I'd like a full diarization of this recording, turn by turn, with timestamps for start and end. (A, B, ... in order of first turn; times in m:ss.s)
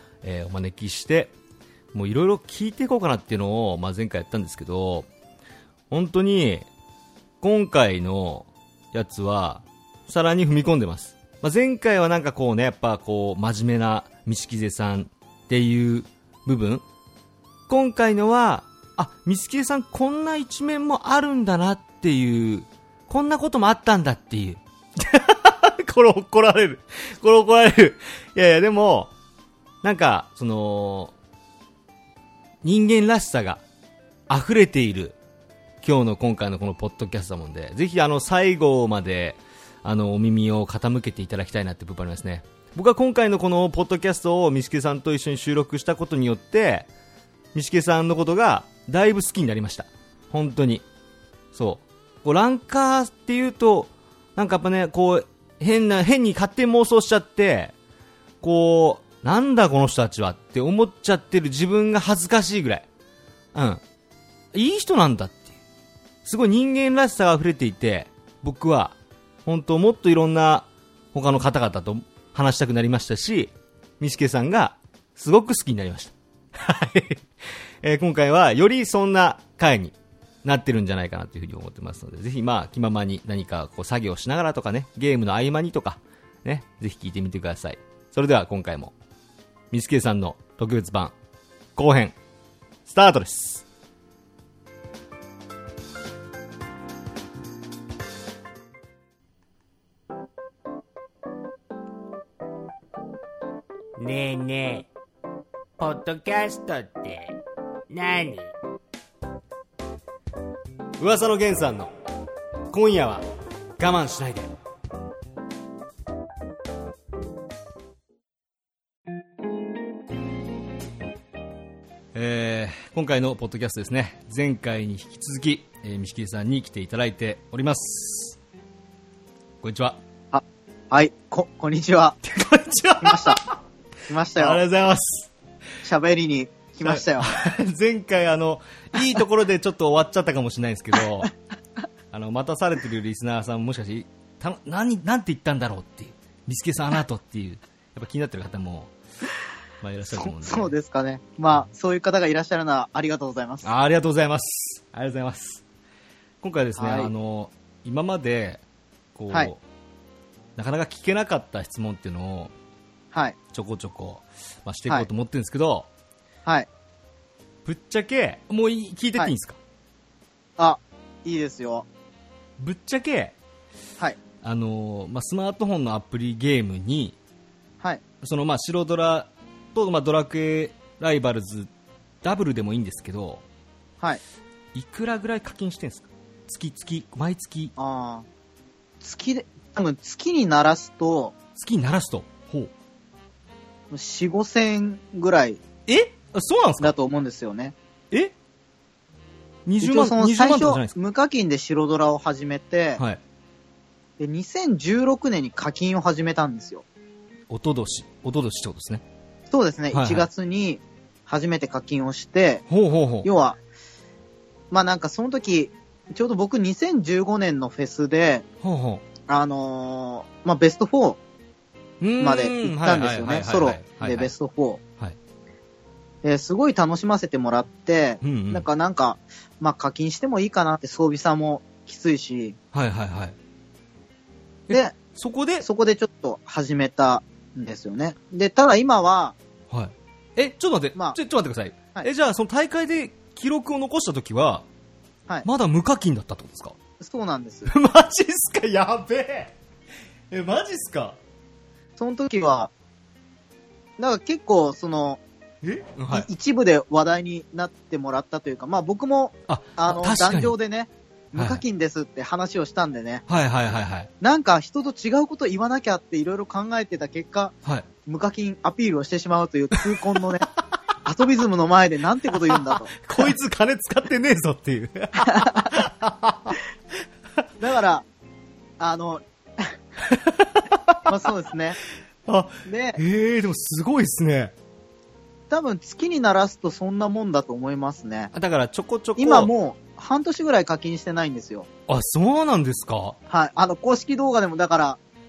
0:00.2-0:01.3 A
0:01.9-0:05.1 A
0:05.9-0:06.7 A
0:07.4-0:16.8 A
0:17.7-0:29.1 A
0:29.8-0:31.1 A
0:32.6-0:33.6 A
0:34.3-0:35.2 A
0:35.8-0:46.9 A
0:47.5-0:50.9 A
0:51.5-0:57.7 A
0:58.4-1:02.9 A
1:03.5-1:03.8 A
1:04.5-1:05.6 A
1:06.2-1:17.3 A
1:17.8-1:28.9 A
1:29.7-1:31.2 A
1:31.8-1:32.2 A
1:32.9-1:33.6 A
1:44.0-1:44.9 B
1:45.8-1:47.4 B
1:47.9-1:48.5 B
1:51.0-1:51.9 A
1:52.7-1:53.2 A
1:53.8-1:54.5 A
2:02.1-2:08.4 A
2:09.6-2:10.0 A
2:10.3-2:12.2 C
2:12.2-2:13.6 A
2:13.0-2:13.4 C
2:14.1-2:14.6 C
2:14.4-2:15.3 A
2:15.8-2:17.4 C
2:16.8-2:21.3 A
2:22.1-2:28.9 A
2:29.8-2:30.7 A
2:30.1-2:33.7 C
2:33.6-2:35.6 A
2:36.4-2:38.6 A
2:36.8-2:37.1 C
2:39.2-2:39.6 A
2:40.6-2:42.5 A
2:43.5-2:45.9 A
2:47.6-2:49.6 A
2:50.6-2:51.9 C
2:52.6-2:53.4 A
2:54.4-2:57.2 A
2:58.2-3:01.7 A
3:02.2-3:03.4 A
3:04.7-3:07.8 A
3:07.8-3:08.3 C
3:09.0-3:11.3 C
3:11.6-3:12.7 A
3:13.9-3:15.6 C
3:15.9-3:17.0 A
3:16.8-3:17.8 C
3:19.7-3:20.9 A
3:19.8-3:23.0 C
3:24.2-3:26.8 C
3:27.5-3:29.0 A
3:29.5-3:32.6 C
3:29.9-3:30.3 A
3:32.7-3:33.3 A
3:33.2-3:33.6 C
3:34.7-3:38.4 C
3:38.6-3:39.0 A
3:39.3-3:41.2 C
3:42.0-3:44.3 A
3:42.2-3:44.8 C
3:46.2-3:52.6 C
3:48.2-3:48.7 A
3:52.7-3:53.4 A
3:54.7-3:55.7 A
3:55.6-3:59.4 C
3:59.7-4:04.6 A
4:05.4-4:06.8 A
4:07.0-4:07.7 C
4:07.7-4:09.5 A
4:10.3-4:11.2 A
4:12.0-4:12.7 C
4:14.0-4:15.2 C
4:15.6-4:16.3 A
4:16.1-4:23.2 C
4:19.5-4:20.5 A
4:21.4-4:21.6 A
4:23.3-4:24.1 A
4:24.2-4:27.6 C
4:28.1-4:30.5 C
4:31.0-4:33.0 C
4:32.5-4:36.6 A
4:35.2-4:35.7 C
4:37.6-4:38.1 C
4:38.8-4:39.7 C
4:40.0-4:41.1 A
4:41.1-4:41.8 C
4:42.3-4:44.5 A
4:42.7-4:43.0 C
4:45.5-4:48.3 C
4:48.3-4:49.5 A
4:49.2-4:51.7 C
4:51.9-4:53.2 A
4:53.3-4:55.0 C